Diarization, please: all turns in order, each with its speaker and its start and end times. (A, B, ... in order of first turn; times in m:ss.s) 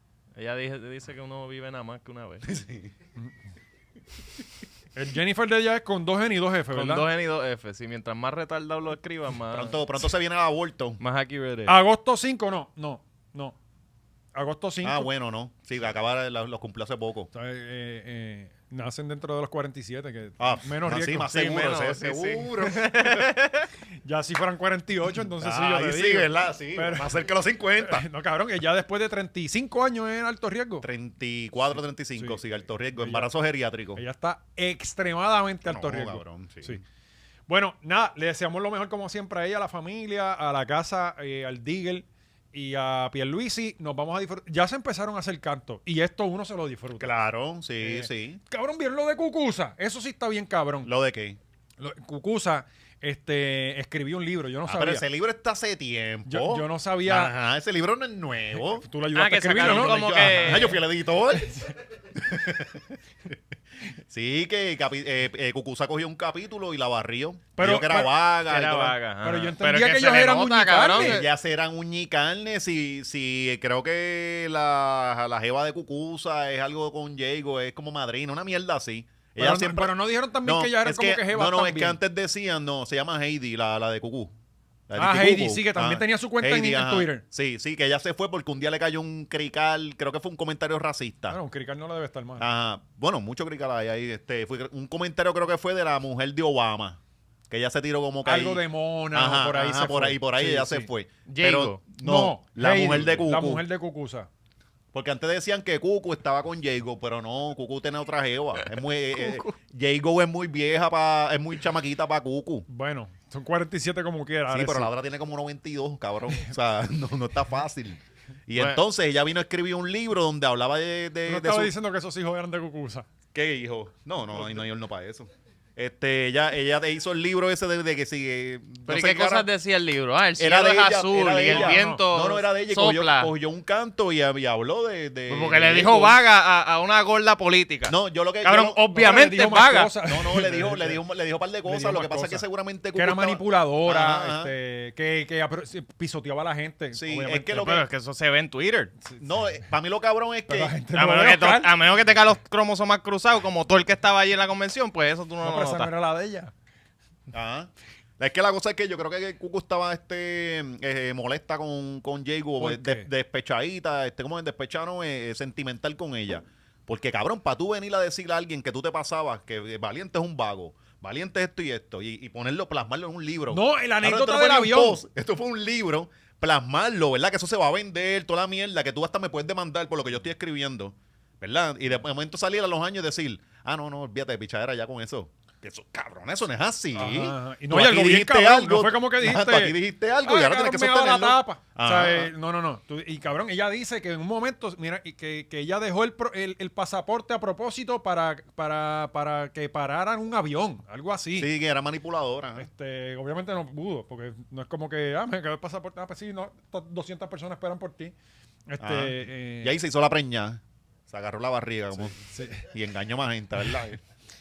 0:00.4-0:02.4 A
0:02.4-0:02.9 B
0:04.9-0:07.1 C
0:06.7-0:09.8 A
0:09.5-0:11.0 B
0:11.0-0:11.8 A
0:11.7-0:13.6 C
0:14.3-0:15.1 C
0:14.8-0:17.3 B
0:17.3-0:21.3 C
0:20.4-0:23.3 B
0:21.3-0:23.7 A
0:24.0-0:30.8 C
0:25.3-0:28.0 B
0:30.8-0:34.0 B
0:33.0-0:33.3 C
0:33.9-0:36.8 C
0:35.6-0:36.8 B
0:37.5-0:47.1 C
0:47.0-0:48.4 B
0:47.8-0:50.9 C
0:50.8-0:51.4 B
0:51.8-0:55.0 C
0:54.6-0:58.9 B
0:56.3-0:57.3 C
0:58.7-1:00.8 C
0:59.1-1:00.8 A
0:59.6-1:02.9 B
1:04.1-1:09.0 B
1:07.6-1:08.1 C
1:08.4-1:11.3 A
1:09.2-1:11.2 C
1:10.9-1:24.3 B
1:19.4-1:22.0 C
1:24.9-1:31.4 B
1:25.0-1:27.2 C
1:31.3-1:32.5 C
1:32.4-1:43.6 B
1:38.2-1:40.9 C
1:41.3-1:41.8 A
1:42.0-1:44.3 C
1:44.9-1:52.6 B
1:49.2-1:49.4 A
1:52.7-1:54.9 C
1:54.5-2:01.7 B
1:58.5-1:58.8 A
2:01.2-2:03.1 C
2:03.3-2:09.5 B
2:08.8-2:13.3 A
2:10.4-2:16.2 B
2:11.4-2:12.0 C
2:15.3-2:19.9 A
2:17.9-2:18.8 B
2:18.9-2:21.0 C
2:20.0-2:24.5 B
2:21.6-2:27.7 C
2:26.9-2:27.8 B
2:27.5-2:28.9 A
2:29.2-2:30.8 B
2:30.5-2:31.7 C
2:30.9-2:35.9 A
2:35.4-2:36.5 C
2:37.3-3:12.3 B
2:42.6-2:43.1 C
2:53.5-2:55.0 C
3:06.9-3:21.5 C
3:21.4-3:22.7 B
3:22.6-3:28.1 C
3:28.7-3:29.8 C
3:28.8-3:34.0 B
3:32.2-3:32.6 C